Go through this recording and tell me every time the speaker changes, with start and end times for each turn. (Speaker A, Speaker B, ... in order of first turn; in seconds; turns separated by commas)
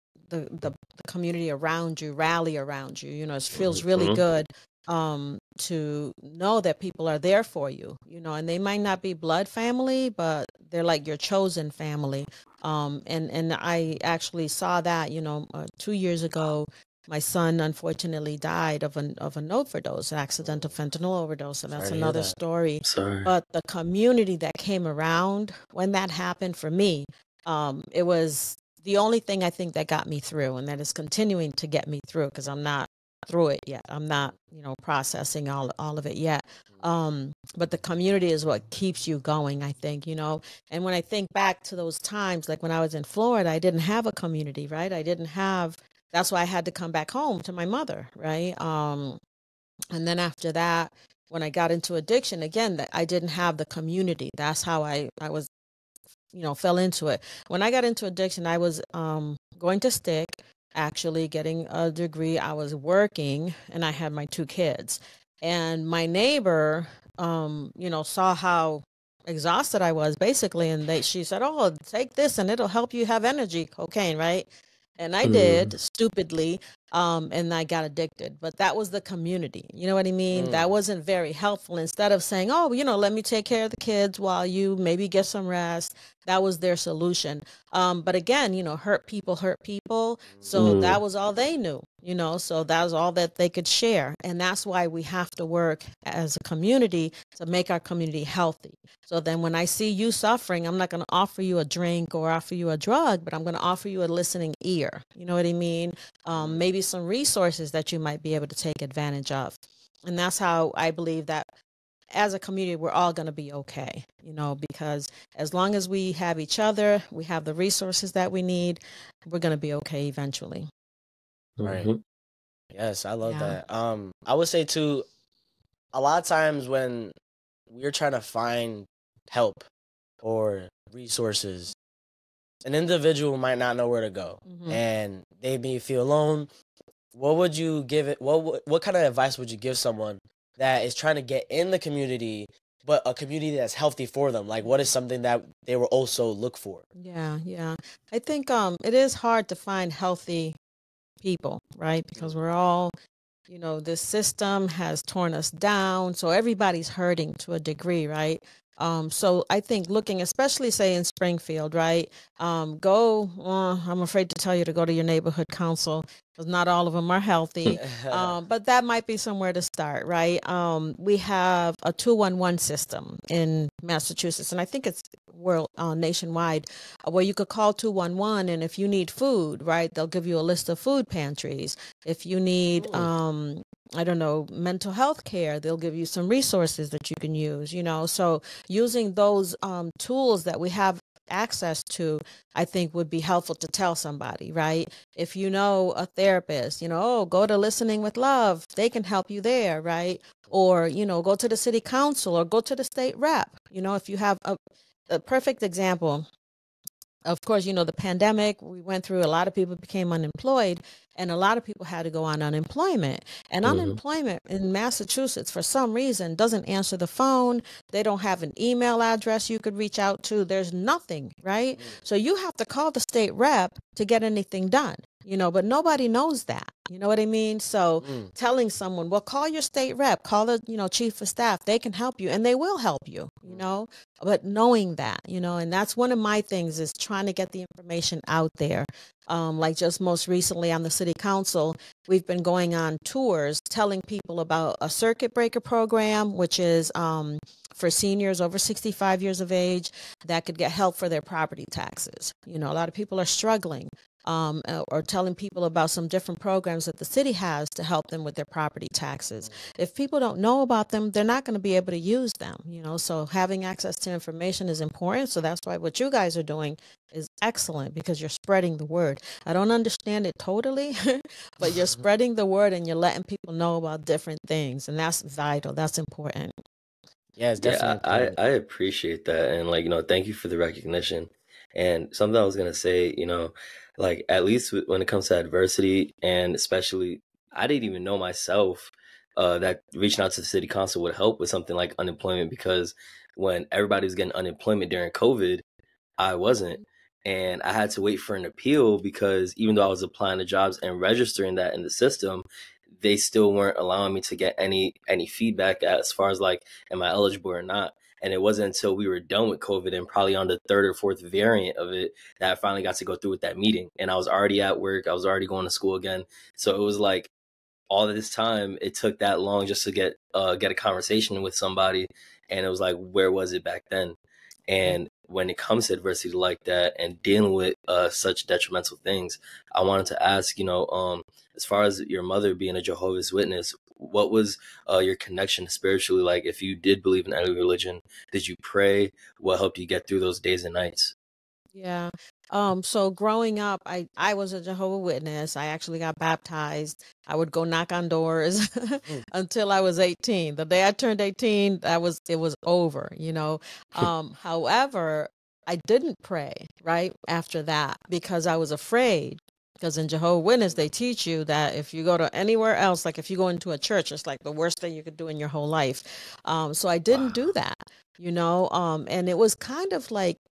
Speaker A: 0.3-49.2, Speaker B: 3.6-4.2, Speaker C: 20.4-20.7, Speaker C: 21.7-22.3, Speaker B: 22.8-23.3, Speaker A: 49.9-55.5, Speaker A: 56.3-111.5, Speaker B: 75.2-75.7, Speaker C: 80.3-80.7, Speaker C: 90.3-90.7, Speaker B: 90.6-91.0, Speaker C: 106.3-106.6, Speaker A: 112.1-120.7, Speaker B: 121.6-122.0, Speaker C: 122.7-125.0, Speaker A: 123.2-123.6, Speaker C: 125.9-127.1, Speaker C: 127.7-129.6, Speaker C: 130.2-131.7, Speaker C: 132.6-136.5, Speaker A: 134.5-134.8, Speaker C: 137.1-146.8, Speaker A: 147.0-150.6, Speaker A: 151.2-152.9, Speaker C: 152.2-152.4, Speaker A: 153.5-204.6, Speaker C: 167.8-168.4, Speaker A: 205.1-206.3, Speaker A: 207.2-276.5, Speaker B: 213.6-214.0, Speaker C: 228.0-228.3, Speaker C: 271.6-272.0, Speaker C: 277.4-278.4, Speaker B: 277.6-295.6, Speaker B: 296.2-302.4, Speaker B: 303.0-317.3, Speaker B: 317.9-324.2, Speaker B: 324.7-341.1, Speaker A: 341.7-370.4